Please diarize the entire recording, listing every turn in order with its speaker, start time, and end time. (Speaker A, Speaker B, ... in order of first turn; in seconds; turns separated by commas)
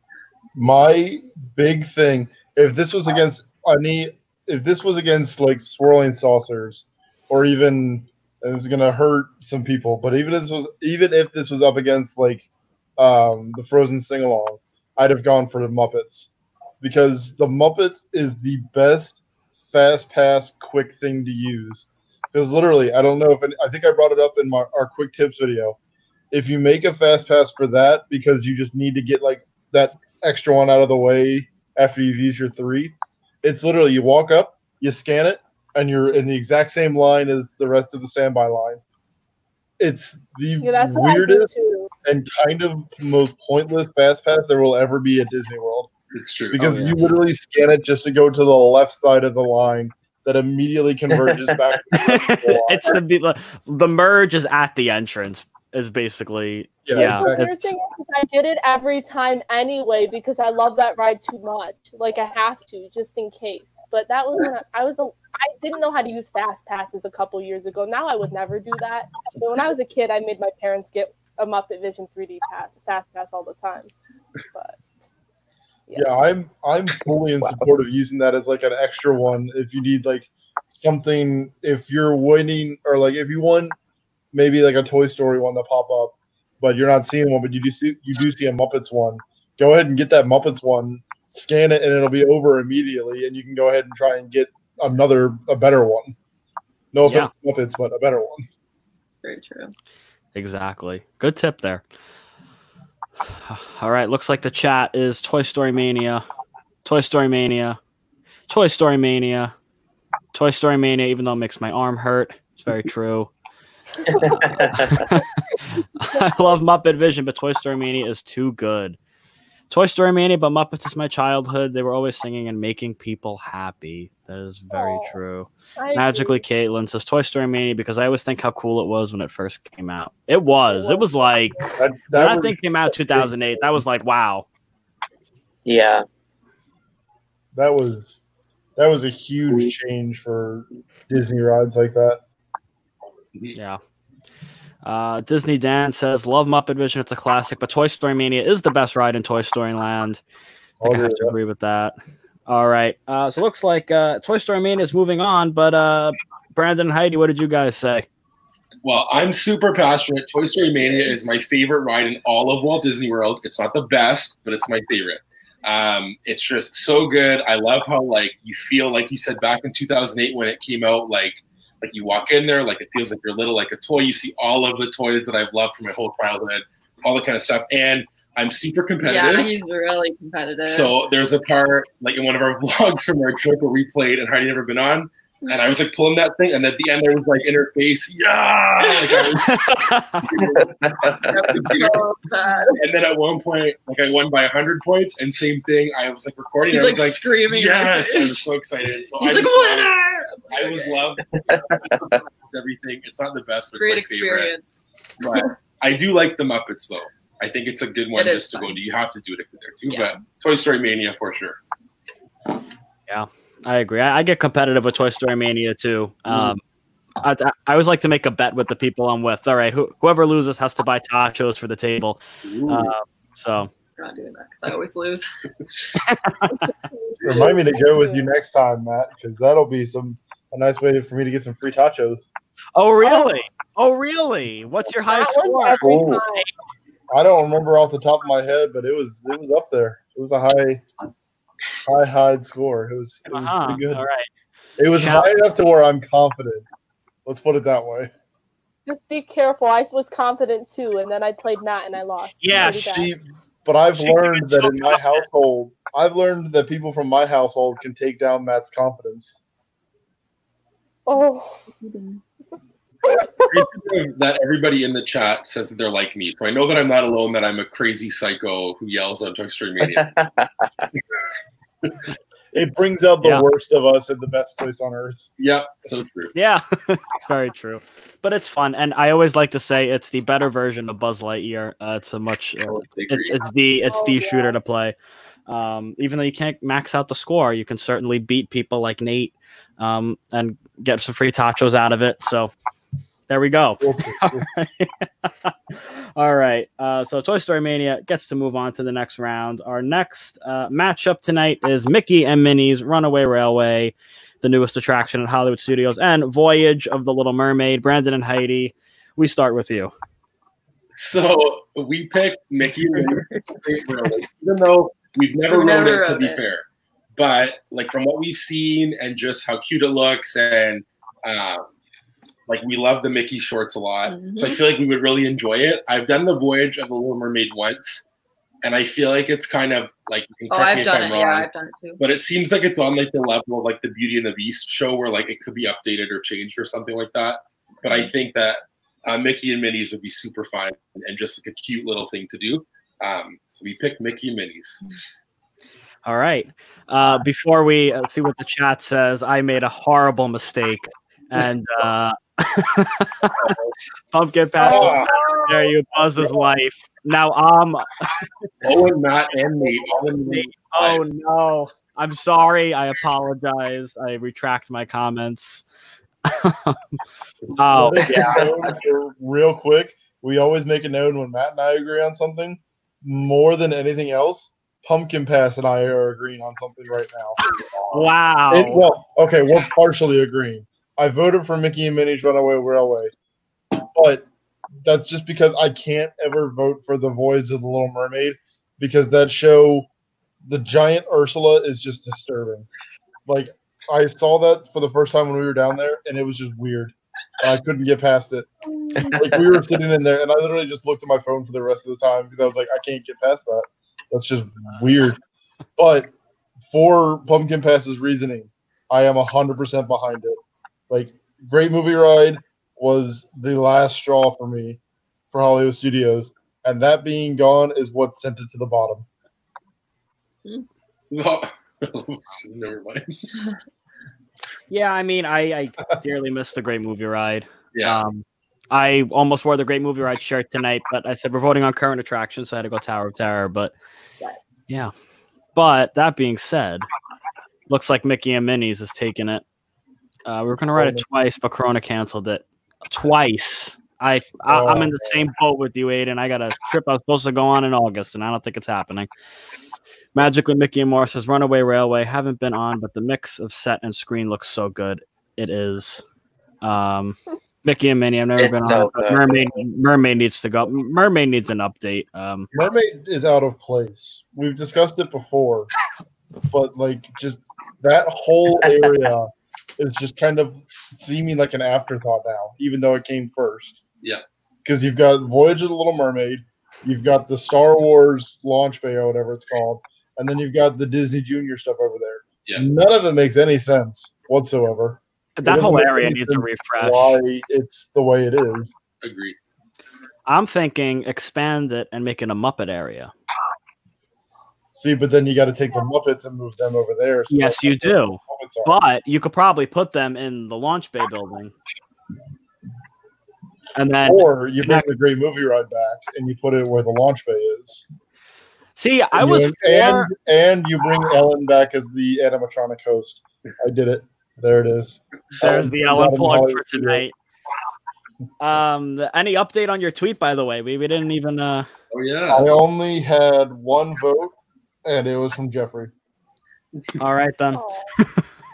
Speaker A: 0.6-12.5, Speaker A: 13.0-16.3, Speaker A: 16.8-25.8, Speaker A: 26.3-38.8, Speaker A: 39.8-41.5, Speaker B: 40.6-41.9, Speaker A: 42.0-45.9, Speaker C: 46.1-46.7, Speaker A: 46.5-53.0, Speaker D: 46.6-47.0, Speaker D: 51.9-57.7, Speaker A: 56.9-57.5, Speaker B: 57.0-73.9, Speaker B: 74.5-74.8, Speaker B: 75.9-76.3, Speaker A: 75.9-83.8, Speaker A: 84.3-96.2, Speaker A: 96.9-98.5, Speaker D: 97.0-97.3, Speaker E: 99.2-99.7, Speaker D: 100.3-101.8, Speaker D: 103.5-106.2, Speaker D: 106.8-107.8, Speaker D: 108.5-109.5, Speaker D: 110.3-113.3, Speaker F: 114.2-115.1, Speaker D: 114.3-115.4, Speaker D: 116.0-119.0, Speaker B: 116.1-116.6, Speaker D: 119.7-134.5, Speaker B: 124.7-125.1, Speaker B: 125.8-126.4, Speaker B: 130.7-131.7, Speaker A: 131.8-133.8, Speaker F: 135.7-136.1, Speaker A: 137.5-138.2, Speaker A: 138.8-142.2, Speaker D: 144.8-150.2, Speaker A: 150.8-151.3, Speaker D: 150.8-151.9, Speaker D: 152.5-158.1, Speaker C: 158.8-179.6, Speaker E: 160.6-161.2, Speaker E: 179.0-180.9, Speaker C: 180.7-192.1, Speaker E: 188.8-189.4, Speaker D: 189.5-190.3, Speaker F: 190.6-191.6, Speaker E: 191.3-192.8, Speaker C: 192.8-199.9, Speaker E: 196.7-198.5, Speaker E: 199.2-201.2, Speaker C: 200.5-204.5, Speaker F: 201.6-202.2, Speaker E: 203.8-204.8, Speaker C: 205.2-211.6, Speaker E: 208.2-208.8, Speaker E: 209.9-210.2, Speaker D: 213.1-216.6, Speaker C: 216.3-216.6, Speaker D: 217.2-223.7, Speaker C: 222.4-222.9, Speaker E: 224.0-225.3, Speaker D: 226.0-226.7, Speaker B: 226.6-228.3, Speaker A: 227.2-232.3, Speaker D: 232.8-235.9, Speaker B: 233.0-233.3, Speaker B: 235.1-236.5, Speaker F: 235.8-236.2, Speaker A: 237.1-240.8, Speaker A: 241.8-244.0, Speaker D: 243.3-244.3, Speaker A: 244.8-246.7, Speaker D: 244.9-245.3, Speaker A: 247.3-248.1, Speaker B: 248.9-253.1, Speaker D: 252.4-253.0, Speaker A: 252.6-259.4, Speaker D: 254.0-255.0, Speaker B: 261.1-261.6, Speaker E: 261.8-262.2, Speaker B: 263.1-263.5, Speaker C: 263.1-270.1, Speaker F: 269.9-270.6, Speaker A: 272.5-275.3, Speaker C: 275.4-276.3, Speaker D: 276.4-284.9, Speaker C: 282.7-283.4, Speaker B: 283.9-284.6, Speaker D: 285.5-292.5, Speaker D: 293.3-309.9, Speaker A: 293.8-294.5, Speaker C: 310.9-316.6, Speaker F: 312.9-313.4, Speaker E: 315.5-316.4, Speaker C: 317.2-321.7, Speaker C: 322.5-328.0, Speaker E: 324.1-324.6, Speaker C: 328.6-331.5, Speaker E: 330.5-332.0, Speaker C: 332.0-344.8, Speaker D: 346.1-353.5, Speaker D: 354.1-358.3, Speaker B: 354.6-355.7, Speaker A: 354.7-355.0, Speaker C: 358.6-361.0, Speaker D: 360.2-365.6, Speaker D: 366.3-366.8, Speaker D: 367.6-368.4, Speaker A: 367.7-377.4, Speaker D: 377.9-378.8, Speaker A: 378.5-383.1, Speaker A: 383.9-384.2, Speaker A: 384.8-389.9, Speaker A: 390.4-392.7, Speaker A: 393.3-398.5, Speaker A: 399.1-405.2, Speaker A: 405.8-406.1, Speaker A: 406.6-410.4, Speaker A: 410.9-414.8, Speaker A: 415.3-419.1, Speaker C: 421.1-423.1, Speaker D: 424.7-433.7, Speaker C: 427.7-428.0, Speaker D: 435.6-436.9, Speaker D: 437.7-439.4, Speaker D: 440.3-449.1, Speaker A: 440.8-441.0, Speaker A: 444.5-445.2, Speaker D: 450.1-456.0, Speaker D: 456.6-462.5, Speaker F: 458.4-459.4, Speaker A: 462.5-465.7, Speaker A: 466.5-473.8, Speaker A: 474.6-488.8, Speaker D: 485.4-487.2, Speaker C: 489.0-489.4, Speaker D: 490.3-493.1, Speaker A: 494.7-498.7, Speaker D: 497.3-501.5, Speaker D: 503.8-504.9, Speaker A: 504.1-507.9, Speaker D: 508.8-510.1, Speaker A: 509.1-517.1, Speaker D: 515.4-517.1, Speaker D: 518.4-521.7, Speaker C: 521.9-522.5, Speaker A: 522.3-525.9, Speaker D: 527.0-528.2, Speaker B: 527.5-527.9